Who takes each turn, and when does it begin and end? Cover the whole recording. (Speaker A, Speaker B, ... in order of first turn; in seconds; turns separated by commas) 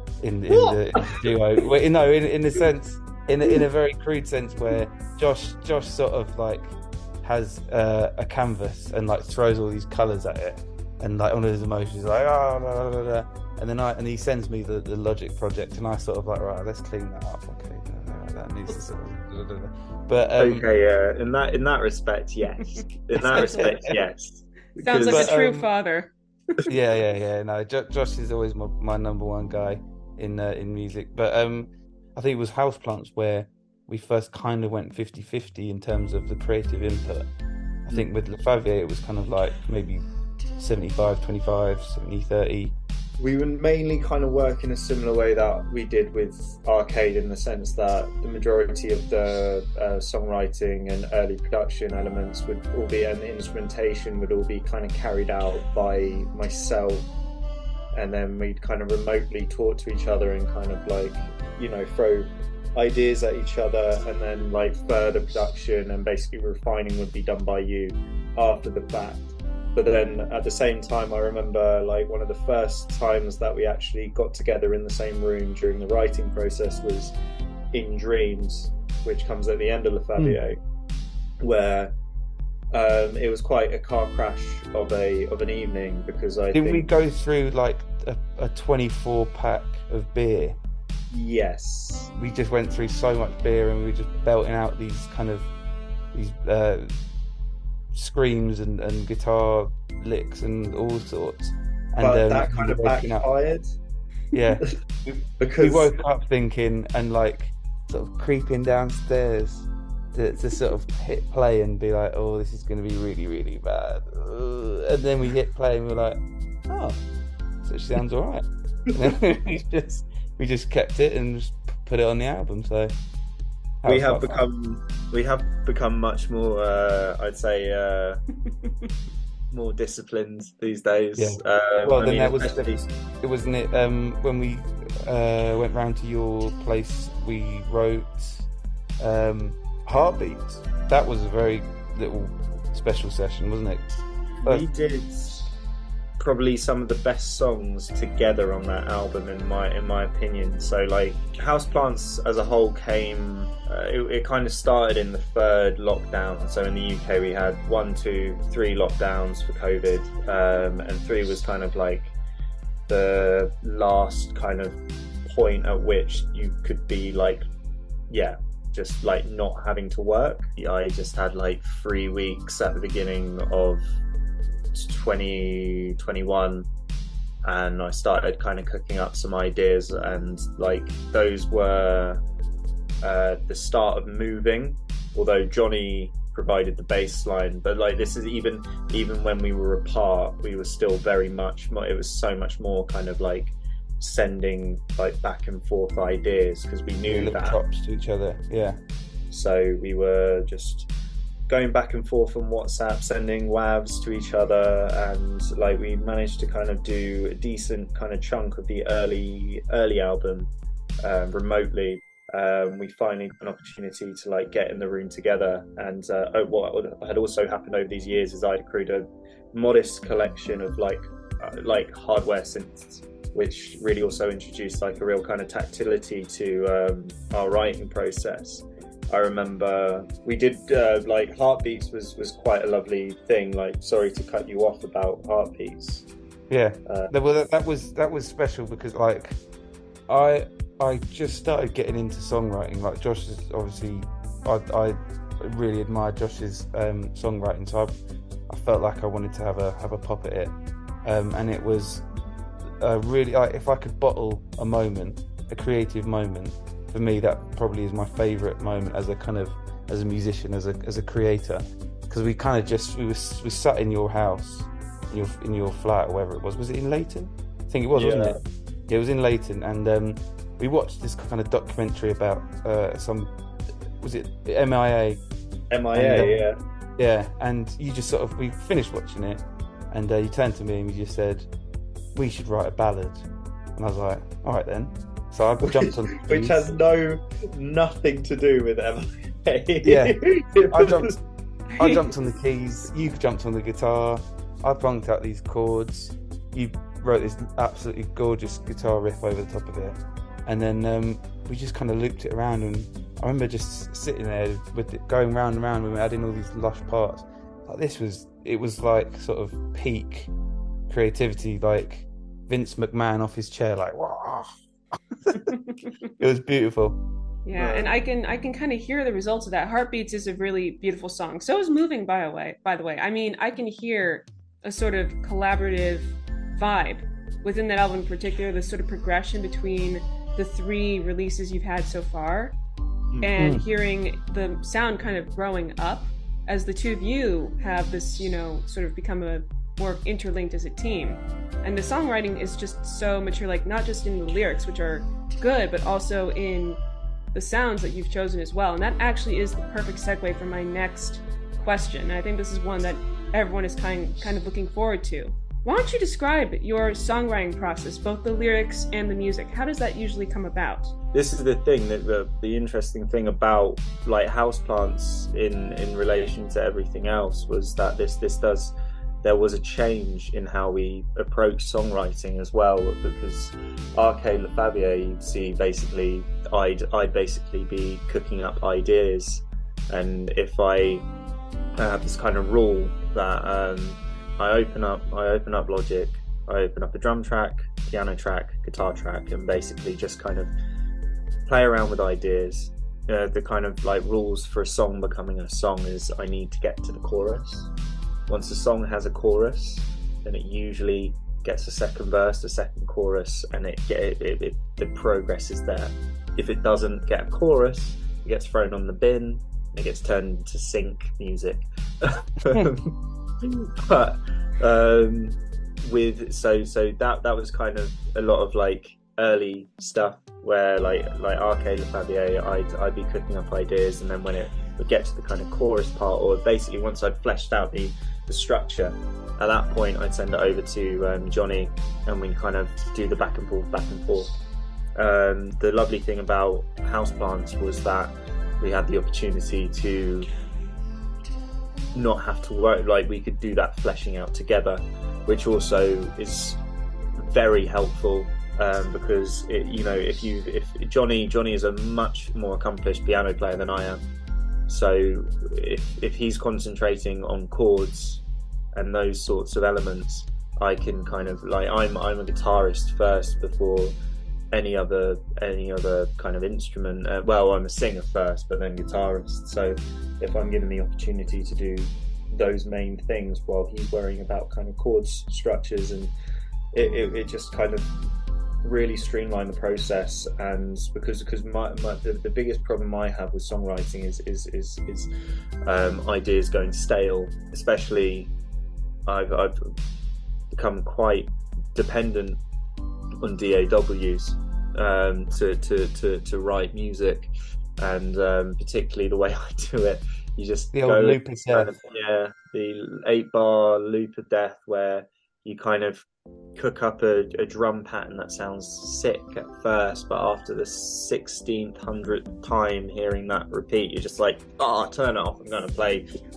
Speaker A: 0.2-20.6, Speaker B: 0.7-1.2, Speaker B: 20.4-25.3, Speaker A: 23.2-23.9, Speaker C: 23.3-23.7, Speaker C: 24.8-26.7, Speaker A: 25.0-25.7, Speaker A: 26.7-37.3, Speaker A: 37.9-40.0, Speaker A: 40.6-42.7, Speaker B: 43.2-57.1, Speaker B: 57.9-77.1, Speaker B: 77.7-80.6, Speaker B: 81.4-81.9, Speaker B: 82.7-86.9, Speaker A: 86.5-90.6, Speaker B: 91.1-92.1, Speaker A: 92.1-95.5, Speaker A: 96.1-96.9, Speaker A: 97.9-103.3, Speaker B: 102.0-103.8, Speaker A: 104.3-117.0, Speaker B: 105.4-105.9, Speaker A: 117.6-122.9, Speaker A: 123.8-124.4, Speaker B: 123.8-128.2, Speaker B: 129.5-132.8, Speaker A: 131.1-138.5, Speaker A: 139.0-143.8, Speaker B: 144.4-145.5, Speaker B: 146.2-162.1, Speaker B: 162.9-167.4, Speaker B: 168.1-173.8, Speaker B: 174.7-176.7, Speaker B: 177.4-182.2, Speaker B: 183.0-197.6, Speaker A: 197.1-198.8, Speaker B: 199.3-200.9, Speaker B: 201.5-210.5, Speaker B: 211.0-236.1, Speaker A: 236.5-239.4, Speaker B: 236.8-237.1, Speaker A: 240.1-247.9, Speaker A: 248.5-250.5, Speaker A: 251.0-252.0, Speaker A: 252.8-268.4, Speaker B: 267.9-268.4, Speaker A: 268.9-273.3, Speaker A: 274.0-275.2, Speaker B: 275.7-276.6, Speaker A: 275.9-276.4, Speaker A: 277.0-281.5, Speaker A: 282.1-286.7, Speaker B: 285.6-291.0, Speaker A: 289.8-291.2, Speaker C: 291.7-292.1, Speaker A: 291.8-310.3, Speaker A: 310.9-315.5, Speaker A: 316.2-317.0, Speaker C: 317.4-332.6, Speaker B: 317.6-317.9, Speaker C: 333.2-346.8, Speaker A: 333.4-333.6, Speaker C: 347.3-360.9, Speaker B: 361.1-381.0, Speaker B: 381.8-390.5, Speaker B: 391.5-397.7, Speaker B: 398.3-412.9, Speaker B: 413.4-434.3, Speaker B: 434.9-440.3, Speaker B: 441.9-446.6, Speaker B: 447.2-454.0, Speaker B: 454.7-458.2, Speaker B: 458.7-464.0, Speaker B: 464.5-476.1, Speaker B: 476.7-477.9, Speaker B: 478.6-485.1, Speaker B: 485.6-488.3, Speaker B: 489.1-489.6, Speaker B: 490.5-492.4, Speaker B: 493.2-516.0, Speaker A: 500.7-501.8